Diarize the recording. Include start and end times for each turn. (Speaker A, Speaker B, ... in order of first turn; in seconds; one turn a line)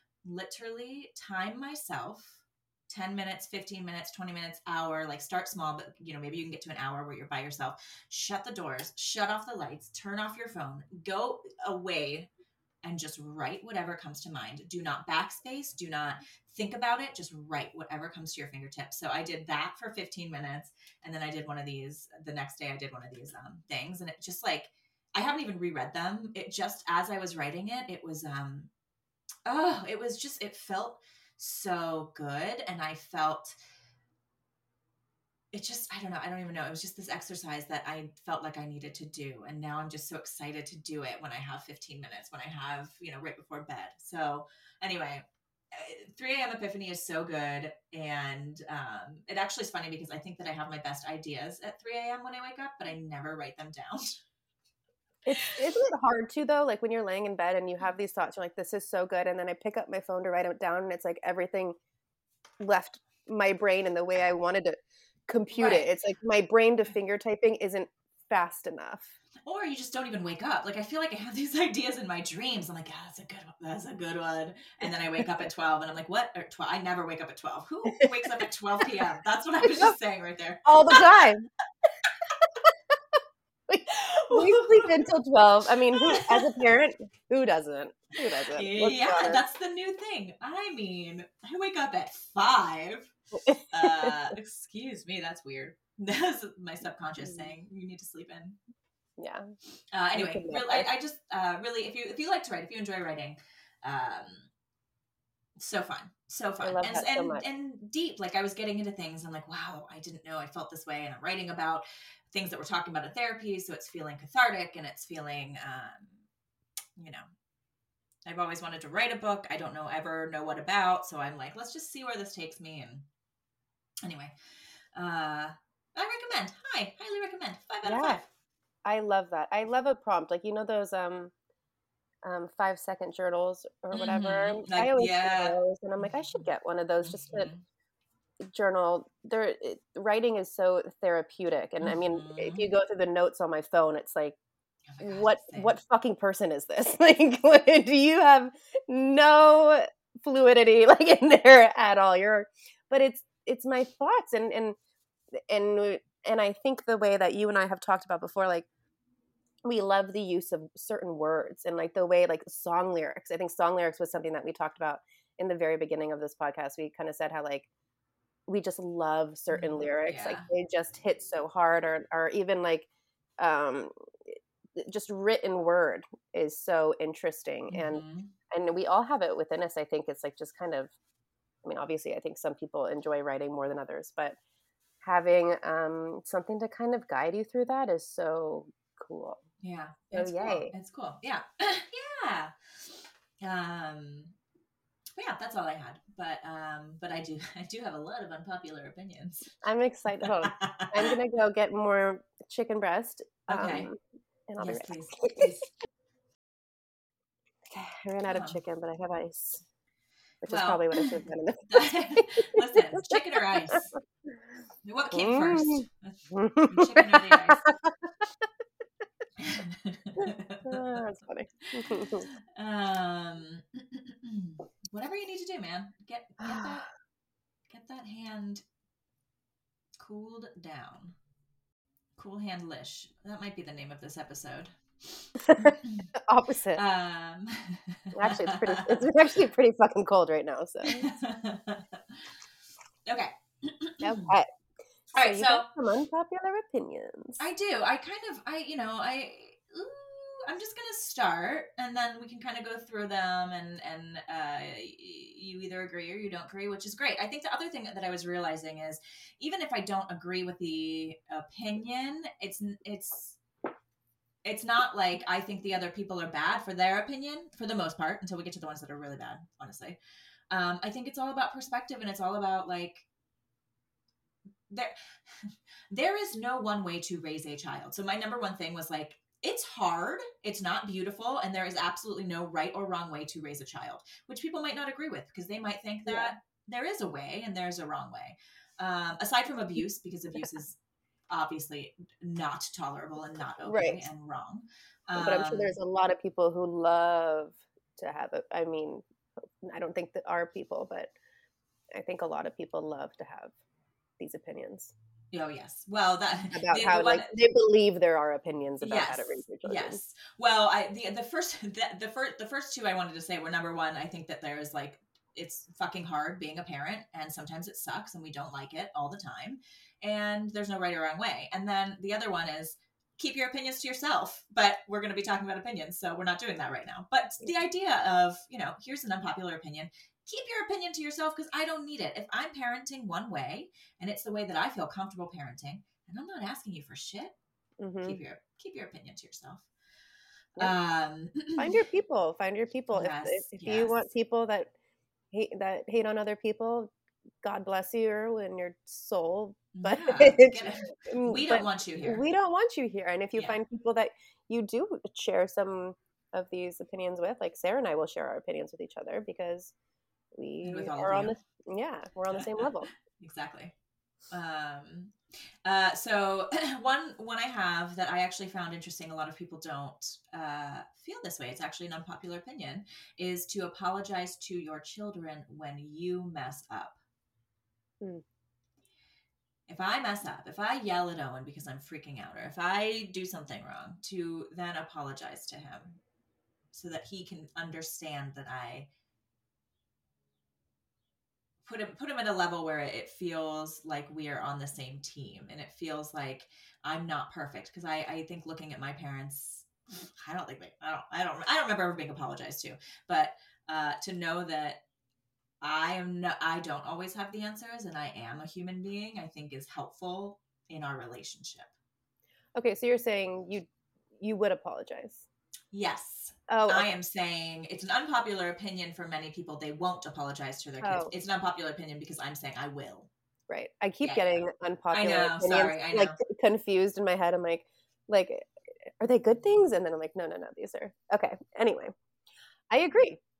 Speaker A: 0.2-12.3
Speaker A: 12.8-28.7
Speaker A: 29.5-33.6
Speaker A: 35.5-54.2
Speaker B: 55.3-61.8
Speaker A: 55.3-55.6
Speaker B: 62.6-69.1
Speaker A: 65.5-65.9
Speaker A: 69.5-81.3
Speaker B: 80.7-81.5
Speaker B: 83.7-89.4
Speaker A: 83.9-85.0
Speaker A: 85.9-86.6
Speaker A: 88.2-93.1
Speaker B: 93.4-94.2
Speaker A: 93.7-98.6
Speaker B: 97.2-97.5
Speaker B: 99.2-99.5
Speaker A: 99.9-104.5
Speaker B: 100.1-100.9
Speaker A: 105.6-116.2
Speaker B: 106.6-107.4
Speaker A: 117.0-117.3
Speaker A: 118.2-123.0
Speaker A: 124.0-124.3
Speaker A: 124.9-128.3
Speaker B: 127.8-128.2
Speaker B: 128.8-131.3
Speaker B: 132.2-137.5
Speaker A: 133.9-136.5
Speaker A: 137.0-137.6
Speaker B: 138.4-144.4
Speaker A: 141.8-142.7
Speaker A: 144.9-145.8
Speaker B: 145.0-154.8
Speaker B: 155.5-158.7
Speaker B: 159.6-167.7
Speaker B: 168.5-172.9
Speaker A: 169.5-170.5
Speaker B: 173.4-180.9
Speaker A: 177.7-178.3
Speaker B: 181.6-184.4
Speaker B: 185.0-189.4
Speaker A: 189.6-194.3
Speaker B: 190.1-190.7
Speaker A: 195.2-199.5
Speaker B: 199.6-204.0
Speaker A: 200.2-201.1
Speaker A: 203.5-203.9
Speaker B: 204.5-205.5
Speaker A: 204.6-205.7
Speaker B: 207.7-209.6
Speaker A: 208.3-208.6
Speaker B: 210.4-213.2
Speaker A: 210.5-213.9
Speaker A: 214.8-217.6
Speaker B: 215.1-218.1
Speaker A: 219.4-221.0
Speaker B: 220.2-222.3
Speaker A: 221.8-226.8
Speaker B: 226.5-226.8
Speaker A: 227.7-228.6
Speaker A: 230.0-231.2
Speaker A: 232.2-236.1
Speaker B: 235.4-236.8
Speaker A: 236.8-239.0
Speaker B: 238.2-241.1
Speaker A: 240.8-242.2
Speaker A: 243.1-244.3
Speaker B: 244.0-244.5
Speaker A: 245.1-245.7
Speaker B: 245.2-247.4
Speaker A: 247.4-263.4
Speaker A: 264.4-270.0
Speaker A: 270.5-273.1
Speaker A: 274.7-290.8
Speaker B: 286.1-286.3
Speaker A: 291.3-295.8
Speaker B: 293.7-294.1
Speaker B: 295.2-301.1
Speaker B: 301.9-303.5
Speaker B: 304.2-304.9
Speaker A: 305.3-307.3
Speaker B: 306.5-310.0
Speaker A: 308.8-337.3
Speaker B: 337.8-338.2
Speaker A: 338.0-339.7
Speaker A: 340.6-341.9
Speaker B: 341.6-344.7
Speaker A: 342.9-344.0
Speaker B: 345.3-359.7
Speaker A: 349.7-352.2
Speaker B: 360.4-362.9
Speaker A: 360.6-361.4
Speaker A: 362.3-363.7
Speaker A: 364.3-377.0
Speaker A: 379.7-386.0
Speaker A: 386.7-388.9
Speaker A: 391.6-404.8
Speaker A: 405.6-411.7
Speaker B: 412.6-413.7
Speaker B: 414.2-415.2
Speaker A: 415.7-423.1
Speaker B: 416.5-416.9
Speaker B: 420.8-421.1
Speaker B: 423.5-428.5
Speaker A: 424.0-426.2
Speaker B: 429.0-431.9
Speaker B: 432.7-433.2